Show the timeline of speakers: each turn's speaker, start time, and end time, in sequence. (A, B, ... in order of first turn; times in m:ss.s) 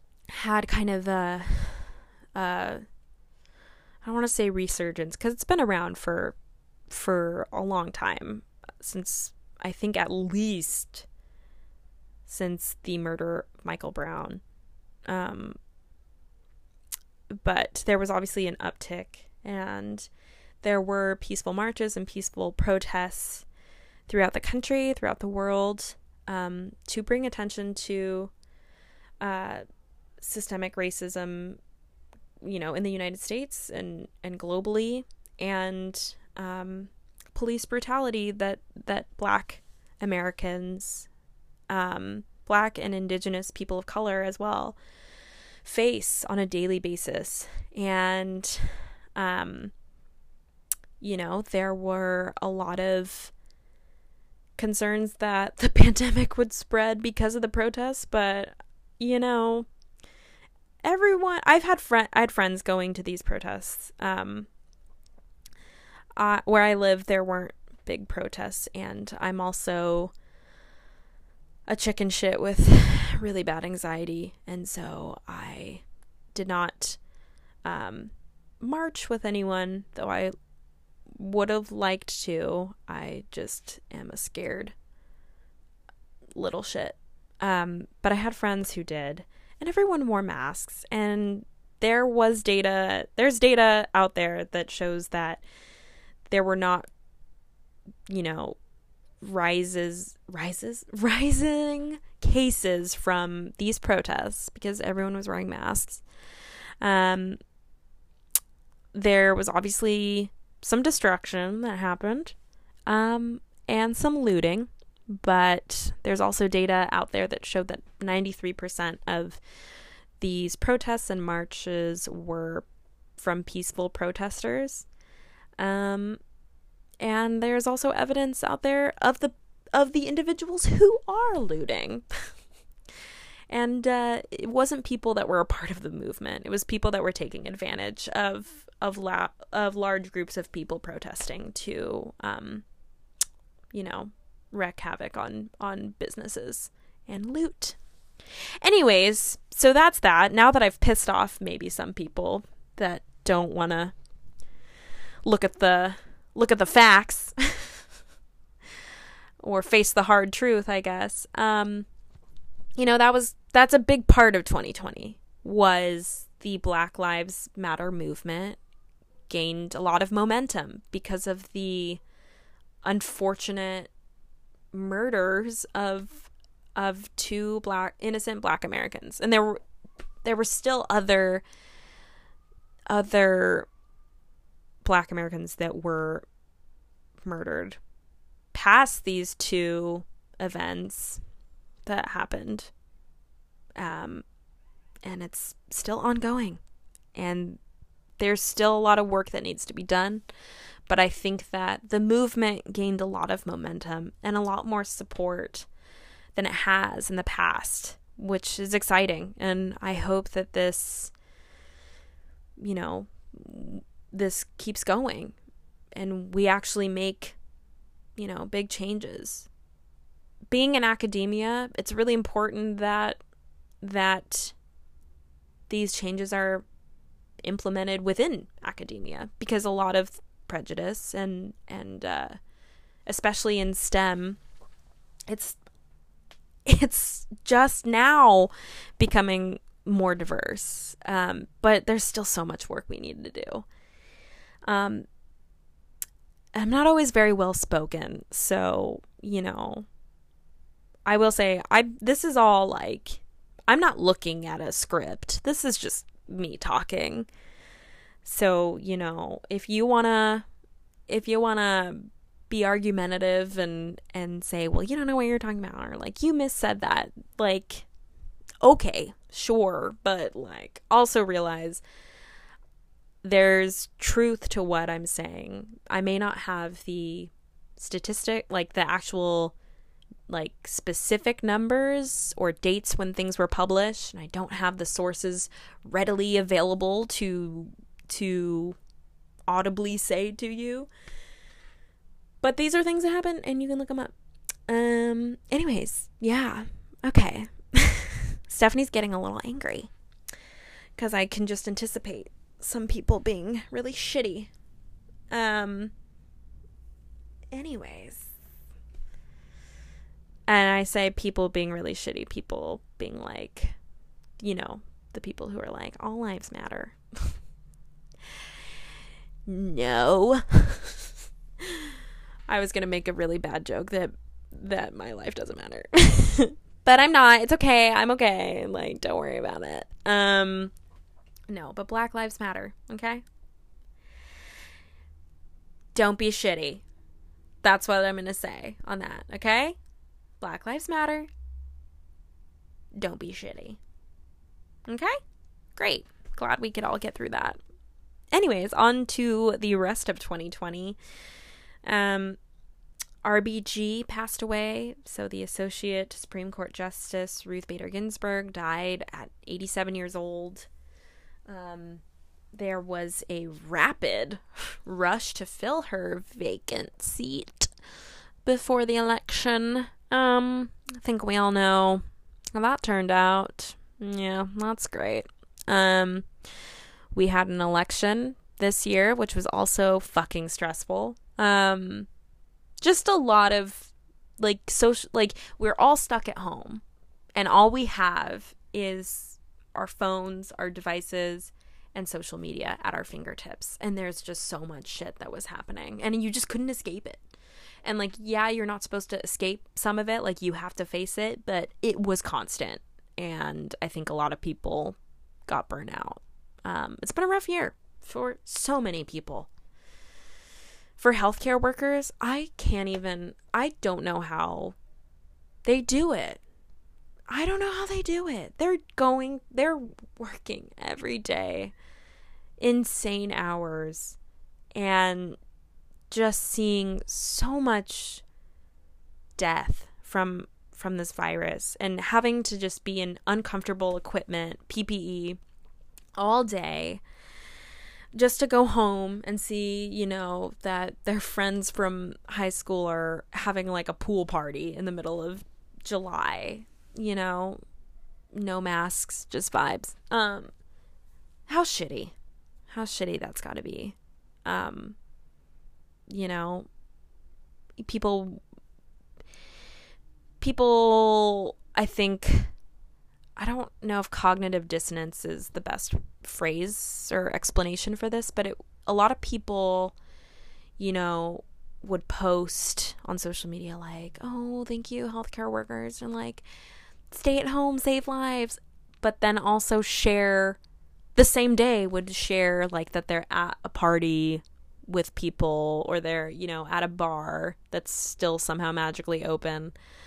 0:00.3-0:02.8 A
0:04.0-0:06.4 A
0:06.9-0:11.1 A
0:12.3-0:14.4 A
0:15.1-0:15.6 A
0:17.4-0:20.1 A
0:20.6-0:23.5 A
0:24.1-0:28.3 A
0:29.2-0:29.6 A
0:30.2-0:31.6 A
0:32.4-0:41.1 A
0:41.7-0:44.8 A
0:45.6-0:49.7 A
0:51.0-0:53.3 A
0:54.6-0:59.7 A
1:00.8-1:04.5 A
1:06.2-1:10.1 A
1:11.7-1:17.0 A
1:17.6-1:20.3 A
1:21.1-1:24.8 A
1:26.4-1:35.4 A
1:36.3-1:36.9 A
1:38.1-1:38.6 A
1:39.2-1:46.1 A
1:46.8-1:47.4 A
1:48.9-1:52.4 A
1:52.9-2:04.9 A
2:05.6-2:06.2 A
2:07.0-2:12.3 A
2:13.5-2:22.6 A
2:23.7-2:27.8 A
2:28.6-2:34.0 A
2:35.2-2:37.8 A
2:39.4-2:41.9 A
2:42.8-2:48.6 A
2:49.3-2:52.0 A
2:52.8-2:53.9 A
2:54.7-2:59.6 A
3:00.2-3:01.4 A
3:02.9-3:03.7 A
3:04.8-3:06.3 A
3:07.2-3:07.8 A
3:08.5-3:11.2 A
3:11.8-3:12.7 A
3:13.8-3:14.2 A
3:15.0-3:16.6 A
3:17.1-3:17.6 A
3:18.2-3:20.3 A
3:20.9-3:25.7 A
3:26.4-3:31.1 A
3:32.6-3:35.4 A
3:36.0-3:37.4 A
3:38.2-3:39.5 A
3:40.5-3:43.2 A
3:43.8-3:44.6 A
3:45.7-3:46.6 A
3:47.4-3:52.4 A
3:53.1-3:54.4 A
3:55.3-3:55.6 A
3:56.7-4:03.7 A
4:04.7-4:05.1 A
4:06.6-4:09.9 A
4:11.1-4:17.3 A
4:18.2-4:20.5 A
4:21.1-4:27.9 A
4:28.6-4:31.8 A
4:33.2-4:39.6 A
4:40.3-4:48.8 A
4:49.5-4:50.9 A
4:52.4-4:54.1 A
4:54.7-4:59.9 A
5:01.0-5:04.5 A
5:05.3-5:05.9 A
5:07.5-5:08.3 A
5:10.5-5:13.8 A
5:14.4-5:17.0 A
5:19.5-5:21.0 A
5:21.6-5:22.0 A
5:22.5-5:30.7 A
5:31.5-5:33.2 A
5:35.9-5:36.8 A
5:37.6-5:39.8 A
5:40.4-5:41.3 A
5:43.0-5:43.8 A
5:44.9-5:45.2 A
5:45.8-5:47.6 A
5:48.3-5:51.0 A
5:51.8-5:52.4 A
5:53.2-6:00.7 A
6:01.5-6:02.0 A
6:02.6-6:07.7 A
6:08.4-6:16.3 A
6:17.1-6:22.1 A
6:22.8-6:26.8 A
6:27.4-6:37.2 A
6:37.8-6:49.5 A
6:51.0-6:54.8 A
6:55.6-6:56.4 A
6:57.3-7:01.7 A
7:02.6-7:04.2 A
7:04.7-7:05.4 A
7:06.1-7:08.2 A
7:09.4-7:15.4 A
7:16.2-7:17.0 A
7:18.1-7:27.6 A
7:28.3-7:30.5 A
7:31.5-7:32.1 A
7:32.7-7:35.0 A
7:36.1-7:36.7 A
7:37.8-7:38.4 A
7:40.4-7:42.5 A
7:43.4-7:50.0 A
7:50.8-7:56.4 A
7:57.1-8:00.6 A
8:01.2-8:09.7 A